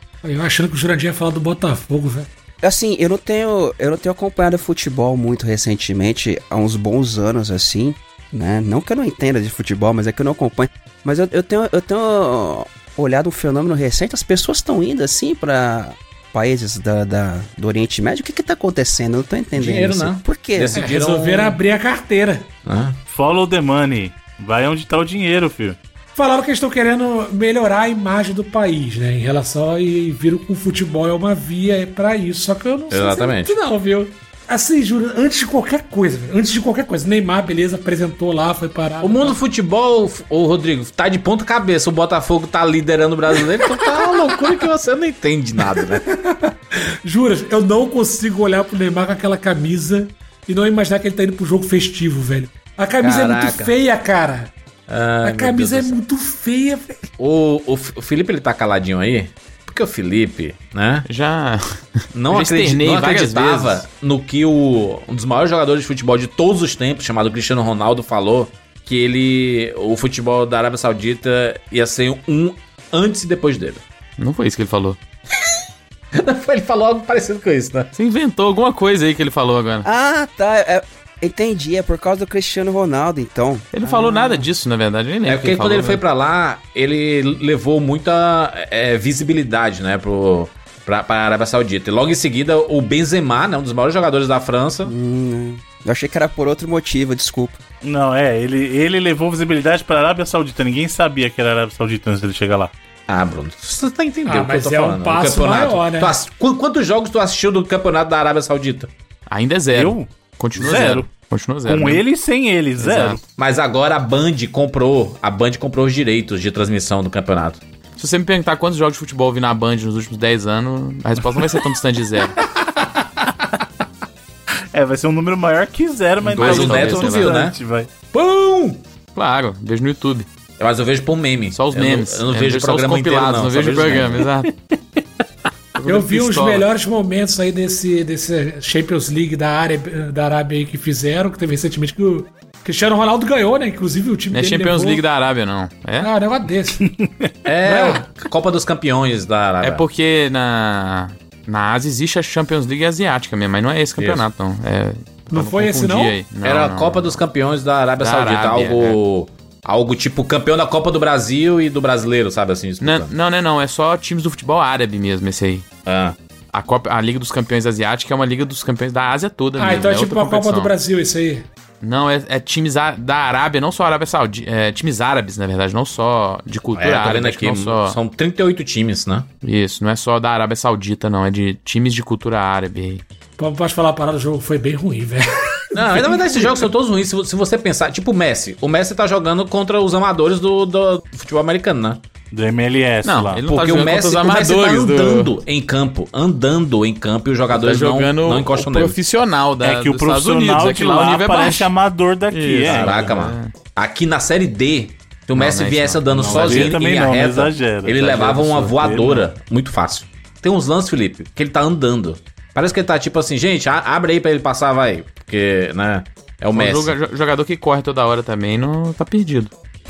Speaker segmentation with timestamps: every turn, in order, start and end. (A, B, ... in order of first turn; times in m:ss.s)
0:00.2-0:02.3 A
0:02.6-0:20.8 B
0:19.6-0:21.6 C
0:20.8-0:22.5 A
0:22.6-0:23.0 C
0:23.1-0:25.8 D
0:26.2-0:39.4 A
0:32.9-0:33.6 C
0:39.0-0:46.1 C
0:43.5-0:44.6 A
0:45.6-0:54.5 A
0:53.0-0:53.8 C
0:54.9-0:56.0 C
0:55.2-0:57.0 A
0:57.2-1:01.1 C
1:01.1-1:03.8 E
1:02.1-1:13.8 C
1:14.2-1:15.0 E
1:16.1-1:17.9 C
1:18.0-1:19.9 E
1:19.8-1:24.5 B
1:23.7-1:26.0 E
1:25.3-1:34.9 C
1:34.9-1:37.6 B
1:37.8-1:42.7 D
1:43.1-1:48.9 C
1:44.2-1:46.1 A
1:49.3-1:52.0 E
1:49.7-1:51.1 D
1:51.6-1:53.2 D
1:52.8-1:53.2 E
1:53.4-1:57.6 C
1:58.0-2:02.4 E
2:02.4-2:03.5 D
2:04.7-2:07.9 D
2:06.2-2:07.4 E
2:06.3-2:07.6 C
2:08.1-2:08.8 A
2:09.2-2:10.3 E
2:10.6-2:14.2 C
2:11.5-2:14.5 E
2:15.8-2:16.7 E
2:15.8-2:25.0 A
2:24.3-2:26.1 E
2:26.0-2:26.8 A
2:26.8-2:27.4 D
2:27.4-2:29.8 C
2:27.7-2:28.0 A
2:29.6-2:37.2 E
2:34.0-2:34.2 C
2:35.3-2:36.2 A
2:36.4-2:43.1 C
2:38.0-2:39.0 E
2:42.8-2:45.6 E
2:45.9-2:46.2 C
2:46.5-2:50.8 E
2:49.6-2:51.5 A
2:51.8-2:58.0 E
2:56.8-2:59.3 C
2:59.4-3:03.0 E
3:03.4-3:06.7 A
3:05.7-3:12.0 C
3:12.3-3:13.4 D
3:13.0-3:15.3 E
3:13.5-3:19.0 C
3:17.5-3:21.7 E
3:19.6-3:23.1 D
3:22.3-3:23.5 E
3:22.6-3:37.0 C
3:25.4-3:26.8 E
3:26.2-3:29.2 D
3:36.5-3:39.5 E